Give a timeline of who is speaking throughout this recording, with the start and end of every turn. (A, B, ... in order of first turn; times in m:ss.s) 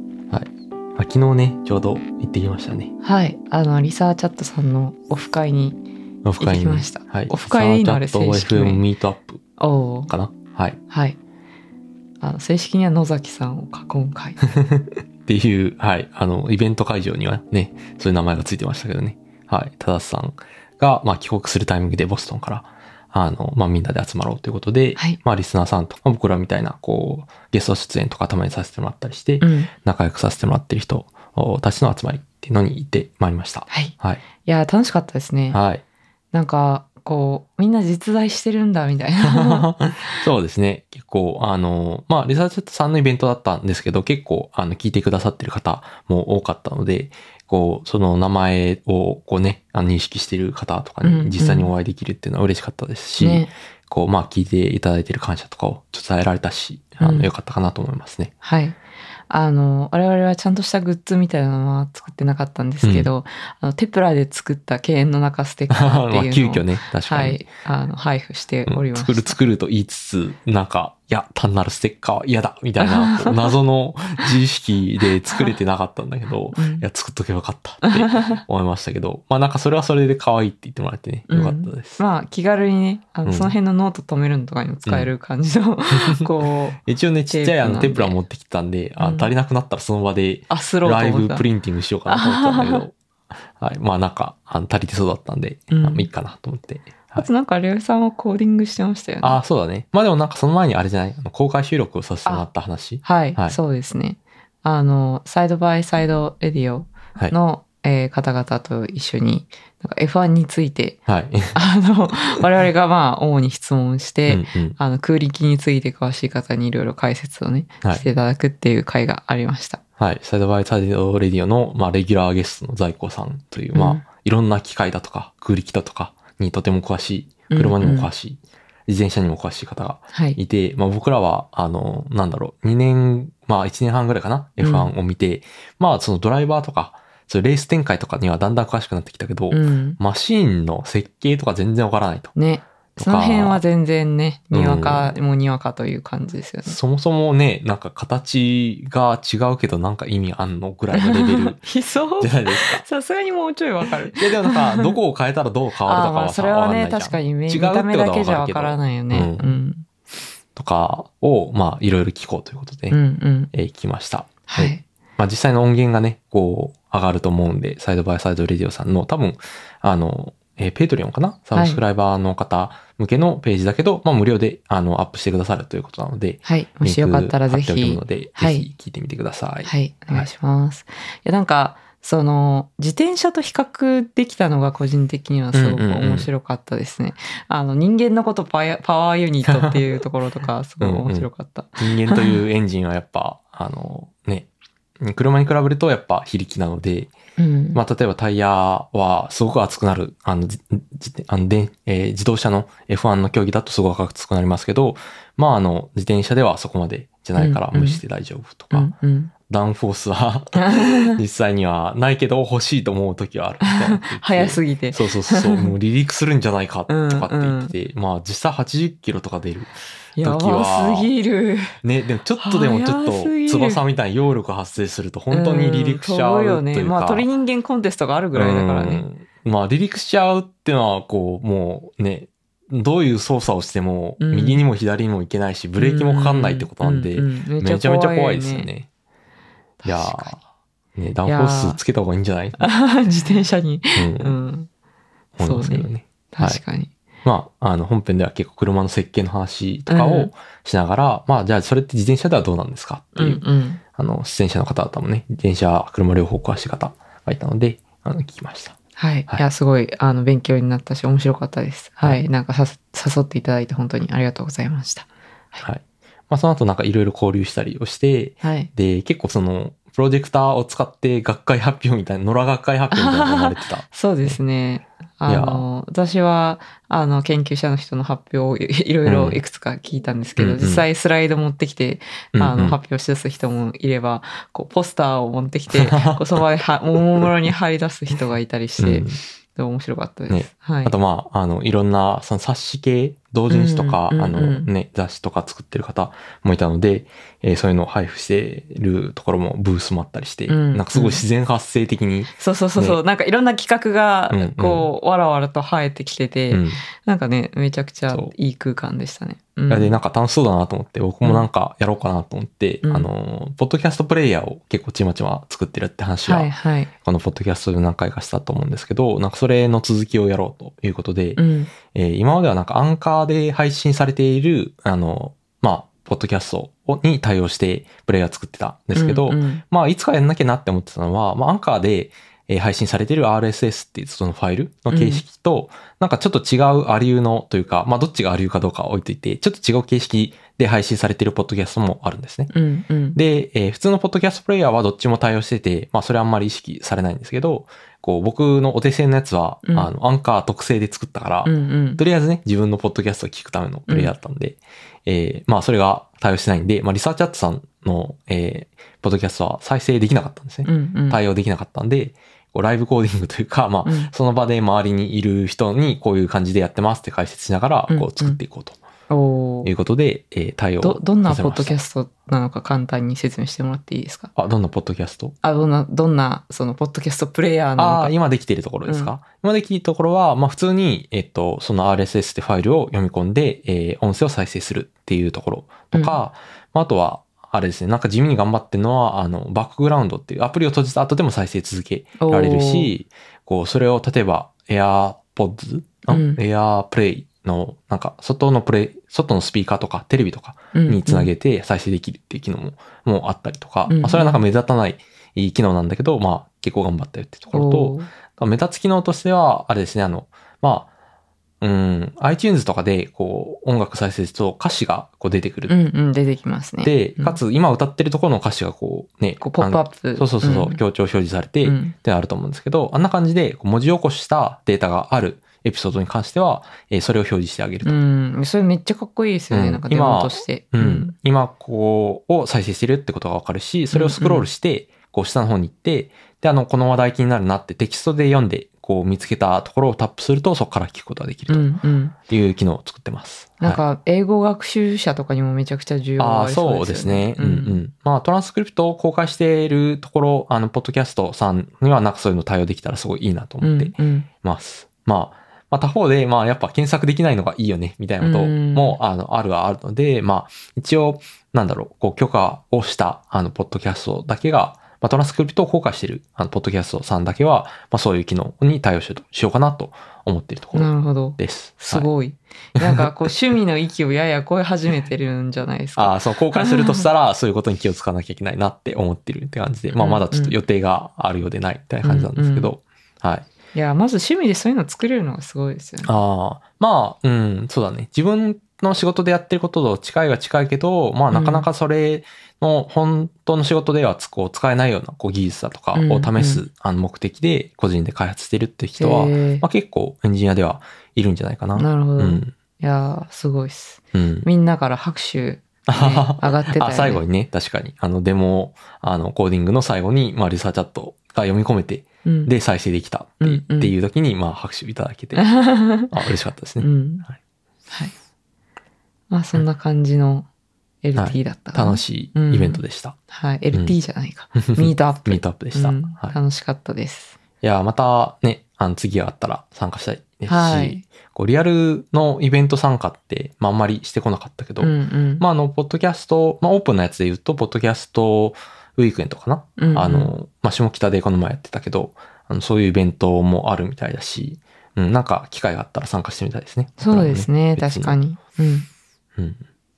0:00.3-0:02.9 A
0:03.0-0:05.8 B
0:06.2-0:09.4 A
0:06.4-0:08.8 B
0:09.6-0:10.1 B
0:10.1-0:10.8 A
0:10.9-0:11.2 B
0:12.2-0:14.4 B
0:14.4-0:34.2 A
0:29.4-0:29.7 B
0:33.7-0:35.6 B
0:35.5-0:35.8 A
0:36.3-0:39.7 B
0:39.2-0:58.3 A
0:51.0-0:51.7 B
0:53.2-0:53.5 B
0:57.0-0:57.3 B
0:58.4-0:58.8 B
0:59.3-1:09.4 B
1:02.8-1:03.1 A
1:05.7-1:07.4 A
1:08.7-1:22.0 A
1:12.8-1:13.6 B
1:16.5-1:16.8 B
1:17.8-1:18.4 B
1:21.3-1:26.8 B
1:23.2-1:23.5 A
1:25.9-1:26.3 A
1:26.8-1:33.0 A
1:27.3-1:28.2 B
1:29.0-1:29.3 B
1:30.5-1:31.5 B
1:32.0-1:32.8 B
1:33.5-1:37.3 A
1:35.7-1:36.1 B
1:37.2-1:39.4 B
1:39.2-1:43.6 A
1:43.0-1:51.0 B
1:51.1-1:51.6 A
1:51.5-1:59.8 B
1:54.3-1:54.8 A
2:00.0-2:22.3 A
2:03.7-2:04.0 B
2:07.5-2:08.1 B
2:10.1-2:10.4 B
2:14.6-2:14.9 B
2:19.5-2:20.0 B
2:22.4-2:26.8 B
2:23.0-2:23.6 A
2:24.5-2:25.2 A
2:26.6-2:31.6 A
2:30.9-2:34.9 B
2:32.2-2:32.8 A
2:34.1-2:39.6 A
2:35.8-2:39.8 B
2:40.5-2:43.0 A
2:42.9-2:43.5 B
2:43.5-3:00.3 A
2:44.5-2:44.8 B
2:51.5-2:51.8 B
2:56.4-2:58.7 B
2:59.6-3:12.4 B
3:05.5-3:06.3 A
3:09.4-3:09.8 A
3:10.8-3:14.5 A
3:15.0-3:17.1 A
3:17.4-3:17.8 B
3:17.7-3:28.9 A
3:27.4-3:28.0 B
3:28.7-3:29.3 B
3:29.5-3:41.1 A
3:30.6-3:31.2 B
3:33.6-3:35.7 B
3:36.9-3:37.7 B
3:40.2-3:41.8 B
3:41.8-3:47.3 A
3:42.4-3:43.8 B
3:45.3-3:49.1 B
3:48.3-3:58.9 A
3:54.2-3:54.6 B
3:55.8-3:58.7 B
3:59.8-4:00.4 B
3:59.8-4:00.4 A
4:00.9-4:02.6 A
4:01.2-4:01.8 B
4:02.6-4:04.7 B
4:03.9-4:04.3 A
4:05.4-4:06.6 A
4:05.4-4:06.9 B
4:07.2-4:13.4 A
4:09.9-4:10.3 B
4:13.2-4:13.8 B
4:14.0-4:19.4 A
4:19.0-4:25.6 B
4:25.6-4:34.4 A
4:28.4-4:28.7 B
4:32.9-4:50.9 B
4:35.3-4:35.6 A
4:39.0-4:39.4 A
4:40.4-4:40.8 A
4:42.3-4:42.8 A
4:45.7-4:47.3 A
4:48.8-4:49.2 A
4:50.3-5:03.0 A
4:53.5-4:54.7 B
5:00.5-5:01.2 B
5:02.3-5:10.0 B
5:04.3-5:04.9 A
5:06.5-5:06.8 A
5:09.7-5:42.5 A
5:12.8-5:13.1 B
5:16.2-5:16.9 B
5:21.4-5:21.7 B
5:29.0-5:29.6 B
5:34.9-5:35.2 B
5:42.5-5:43.2 B
5:43.1-6:08.8 A
5:51.4-5:52.0 B
5:53.9-5:54.1 B
6:00.6-6:01.2 B
6:03.8-6:04.1 B
6:07.9-6:08.4 B
6:09.1-6:09.7 B
6:09.6-6:11.8 A
6:10.8-6:14.3 B
6:14.4-6:15.4 A
6:15.4-6:18.1 B
6:17.8-6:50.9 A
6:18.9-6:19.1 B
6:32.2-6:32.9 B
6:36.1-6:36.4 B
6:40.7-6:41.3 B
6:43.9-6:44.4 B
6:47.5-6:48.1 B
6:51.6-6:55.8 A
6:55.7-6:57.4 B
6:56.8-7:08.0 A
6:59.4-7:00.8 B
7:01.6-7:02.0 B
7:07.8-7:11.1 B
7:09.5-7:21.7 A
7:13.9-7:14.5 B
7:21.5-7:22.2 B
7:22.3-7:23.8 A
7:23.6-7:27.8 B
7:26.2-7:52.1 A
7:33.6-7:34.3 B
7:38.2-7:39.0 B
7:50.7-7:57.1 B
7:52.8-7:53.3 A
7:56.0-8:03.5 A
7:59.9-8:00.6 B
8:02.0-8:02.7 B
8:03.7-8:06.1 B
8:06.0-8:22.6 A
8:11.3-8:11.7 B
8:15.9-8:16.6 B
8:19.0-8:19.6 B
8:21.8-8:27.2 B
8:24.1-8:24.5 A
8:25.9-8:35.5 A
8:32.2-8:32.5 B
8:33.4-8:33.9 B
8:35.4-8:36.1 B
8:36.0-8:37.4 A
8:36.8-8:37.2 B
8:39.3-8:40.5 B
8:41.0-8:47.4 B
8:41.2-8:43.2 A
8:44.6-8:46.4 A
8:47.6-9:08.2 A
8:50.5-8:51.0 B
8:54.8-8:55.4 B
8:59.8-9:00.3 B
9:07.0-9:08.9 B
9:09.4-9:09.6 A